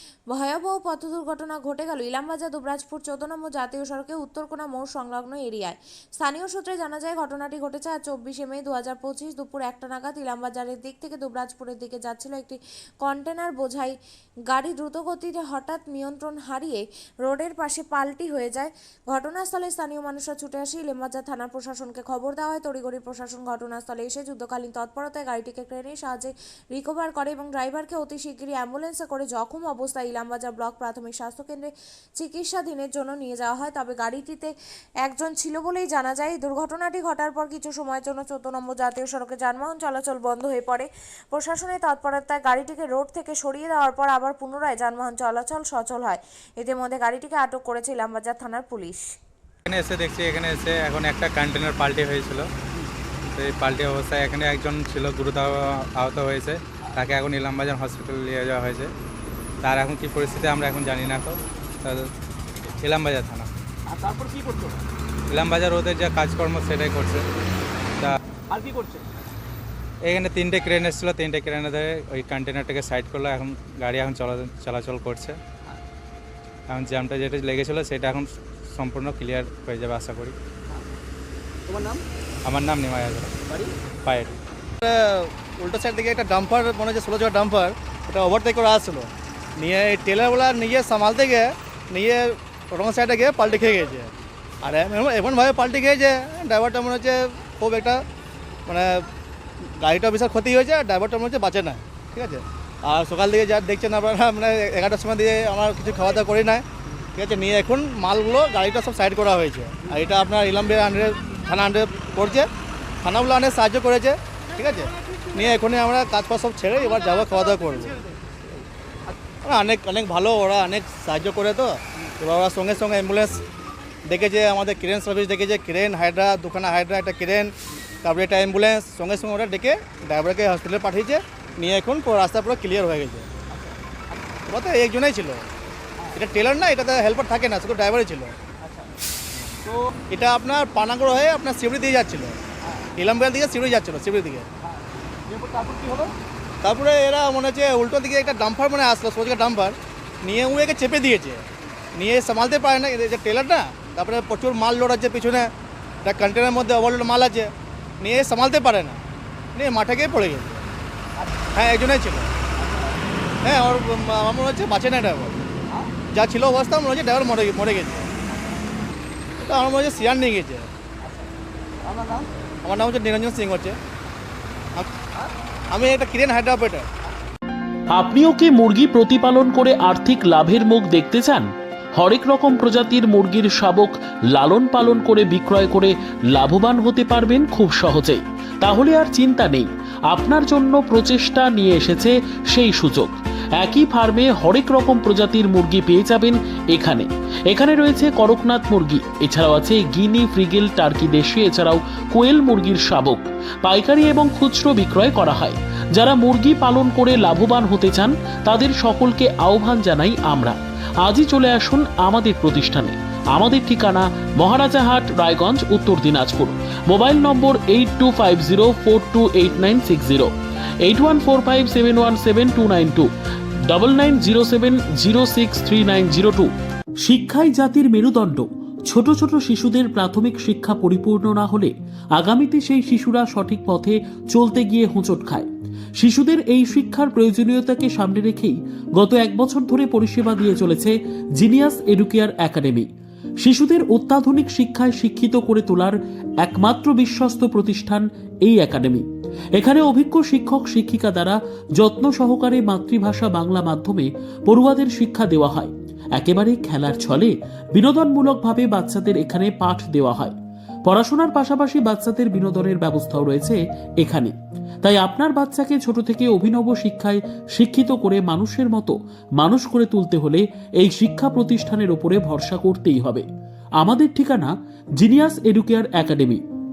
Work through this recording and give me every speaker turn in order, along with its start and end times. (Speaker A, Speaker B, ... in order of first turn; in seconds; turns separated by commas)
Speaker A: 0.3-13.9, Speaker A: 14.5-34.5, Speaker A: 35.0-49.1, Speaker B: 49.7-52.5, Speaker B: 53.3-58.9, Speaker B: 59.6-62.1, Speaker B: 62.8-63.5, Speaker C: 63.9-64.8, Speaker B: 65.3-67.2, Speaker C: 68.5-69.1, Speaker B: 70.1-75.4, Speaker B: 76.7-80.3, Speaker C: 81.7-82.0, Speaker B: 82.5-83.4, Speaker C: 83.5-83.7, Speaker B: 84.0-84.4, Speaker D: 84.8-94.1, Speaker D: 94.6-98.0, Speaker D: 98.7-99.1, Speaker D: 99.6-112.5, Speaker D: 113.0-118.0, Speaker D: 119.4-123.4, Speaker D: 124.0-133.3, Speaker C: 133.5-133.8, Speaker D: 134.5-135.5, Speaker C: 136.0-136.2, Speaker D: 136.1-138.3, Speaker C: 138.6-138.9, Speaker C: 139.7-139.9, Speaker D: 140.1-142.4, Speaker D: 143.0-144.5, Speaker C: 144.7-146.1, Speaker D: 146.6-155.5, Speaker D: 156.0-159.0, Speaker D: 159.6-160.7, Speaker D: 161.5-162.3, Speaker C: 162.6-162.9, Speaker D: 163.4-165.4, Speaker D: 166.1-168.1, Speaker D: 169.4-170.7, Speaker C: 171.0-171.3, Speaker C: 171.8-172.3, Speaker D: 172.6-173.8, Speaker D: 175.7-176.9, Speaker E: 177.9-220.3, Speaker E: 220.8-223.1, Speaker E: 223.7-226.5, Speaker E: 227.0-242.9, Speaker E: 243.4-273.3, Speaker E: 273.8-276.4